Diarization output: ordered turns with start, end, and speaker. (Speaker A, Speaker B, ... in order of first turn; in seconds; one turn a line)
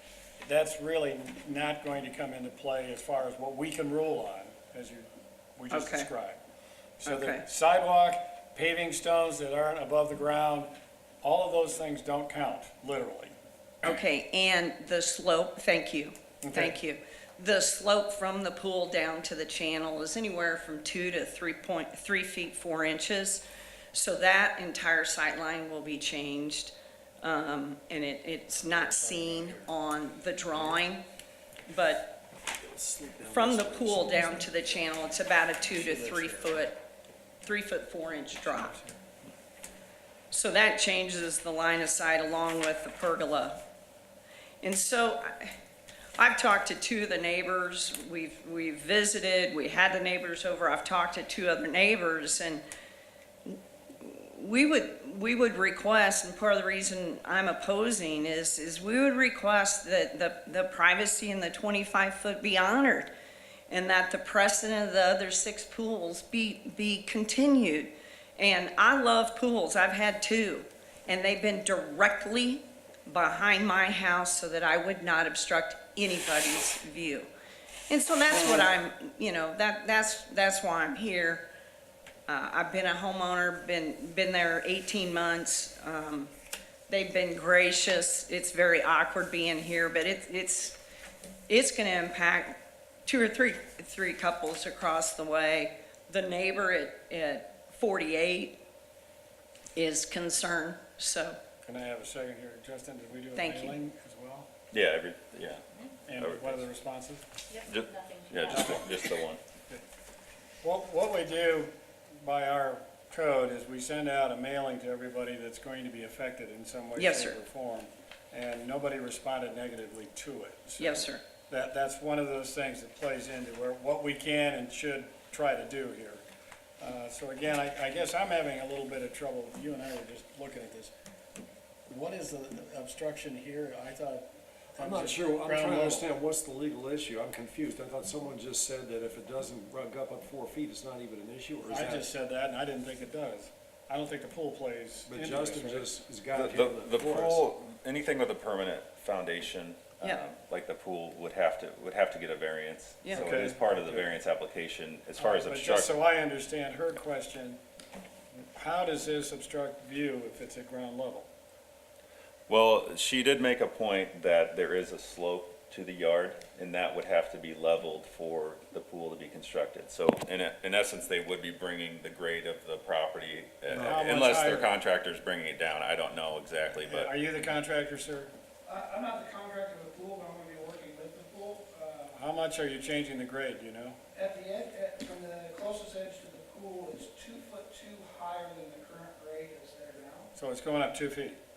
Speaker A: 0.4-6.4
Speaker B: 5.7-6.1
Speaker A: 7.0-10.7
Speaker B: 7.0-7.4
Speaker A: 11.2-13.3
Speaker B: 13.8-23.4
Speaker A: 16.4-16.8
Speaker B: 23.9-31.0
Speaker A: 28.6-29.7
Speaker B: 31.7-32.1
Speaker C: 32.6-34.7
Speaker B: 33.3-36.8
Speaker C: 35.7-36.6
Speaker B: 37.4-38.8
Speaker A: 38.5-39.0
Speaker B: 40.3-43.6
Speaker B: 44.6-45.5
Speaker B: 46.2-52.6
Speaker B: 53.5-63.1
Speaker B: 63.7-77.3
Speaker B: 77.9-81.5
Speaker B: 82.3-86.3
Speaker B: 86.9-90.8
Speaker B: 91.5-98.6
Speaker B: 99.8-101.4
Speaker A: 101.6-104.5
Speaker B: 103.4-103.8
Speaker D: 104.7-106.7
Speaker A: 106.1-107.2
Speaker D: 107.6-109.4
Speaker A: 110.6-111.7
Speaker A: 112.2-126.2
Speaker B: 117.0-117.4
Speaker B: 120.8-121.2
Speaker A: 126.8-130.9
Speaker A: 131.9-136.1
Speaker C: 134.8-142.1
Speaker A: 141.7-145.9
Speaker C: 145.1-147.4
Speaker D: 146.3-155.9
Speaker A: 153.1-154.1
Speaker A: 155.2-157.6
Speaker A: 158.3-161.3
Speaker D: 162.5-177.1
Speaker A: 173.7-174.7
Speaker C: 173.7-174.1
Speaker A: 176.9-178.3
Speaker E: 178.7-182.1
Speaker A: 182.1-184.0
Speaker E: 184.1-190.3
Speaker A: 190.3-191.4